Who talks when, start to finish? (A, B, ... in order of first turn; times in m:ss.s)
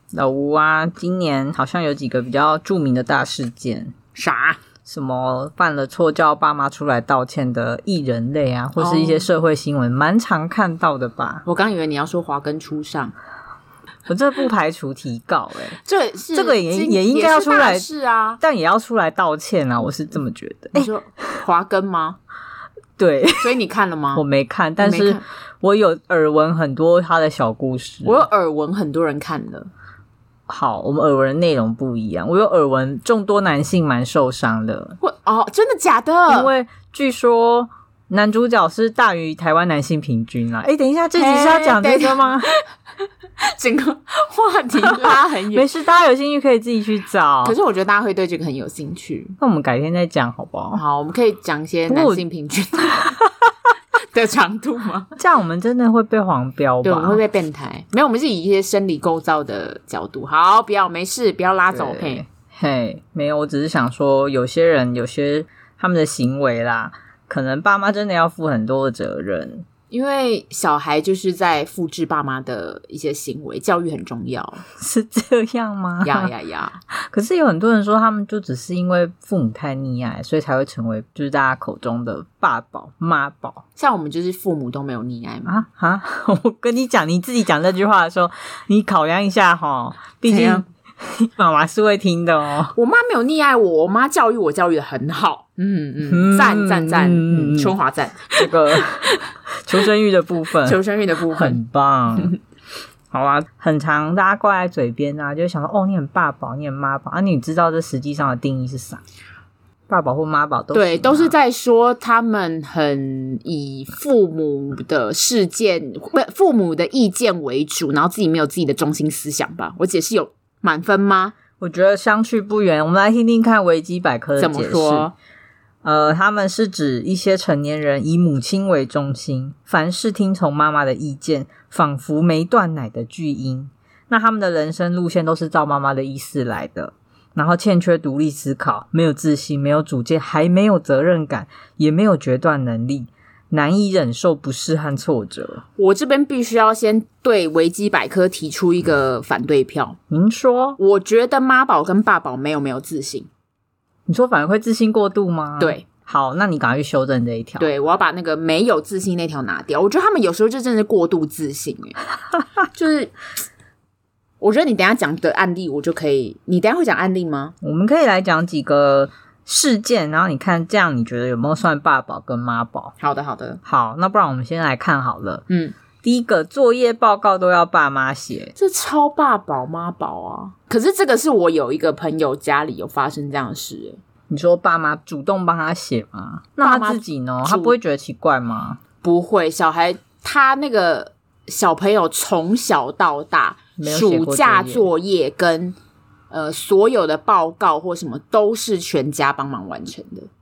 0:00.1-0:03.9 A
0:04.1-0:04.6 B
0:04.8-0:11.4 A
0:08.8-0:09.2 B
0:11.4-0:13.1 B
0:14.1-0:15.8 A
0:15.8-0:18.4 B
0:16.3-0:17.9 A
0:18.4-0:21.4 A
0:20.7-0:22.2 B
0:23.0-0:23.5 A
0:23.4-0:24.2 B
0:24.1-0:28.2 A
0:24.8-0:25.2 B
0:28.0-0:29.7 B
0:30.5-0:35.0 A
0:35.0-0:36.5 B
0:36.3-0:42.5 A
0:41.2-0:42.6 B
0:43.4-0:45.7 B
0:45.5-0:47.6 A
0:47.4-0:49.4 B
0:49.4-0:50.8 A
0:50.7-0:53.2 B
0:51.9-0:52.2 A
0:52.9-0:53.3 A
0:54.1-0:55.1 B
0:55.2-0:57.2 A
0:56.8-1:02.2 B
1:01.7-1:09.6 A
1:09.9-1:14.6 B
1:14.8-1:16.3 A
1:16.0-1:16.8 B
1:16.9-1:23.6 A
1:23.8-1:25.6 B
1:25.4-1:32.7 A
1:30.2-1:30.6 B
1:32.7-1:39.2 B
1:36.1-1:37.7 A
1:38.4-1:40.8 A
1:40.6-1:41.6 B
1:41.3-1:42.4 A
1:43.1-1:49.0 A
1:49.9-1:51.3 A
1:50.7-2:01.3 B
2:01.6-2:05.1 A
2:04.4-2:05.1 B
2:05.8-2:25.6 A
2:25.8-2:30.0 B
2:30.1-2:30.8 A
2:30.8-2:33.3 B
2:34.1-2:37.7 A
2:37.6-2:42.0 B
2:42.7-2:43.1 B
2:44.4-2:47.5 B
2:47.6-2:52.9 A
2:53.0-2:53.6 B
2:53.6-2:55.4 A
2:55.5-2:55.7 B
2:56.0-2:58.5 A
2:58.6-3:04.0 B
3:04.3-3:08.8 A
3:06.6-3:07.7 B
3:09.0-3:15.8 B
3:13.8-3:14.9 A
3:16.3-3:20.3 B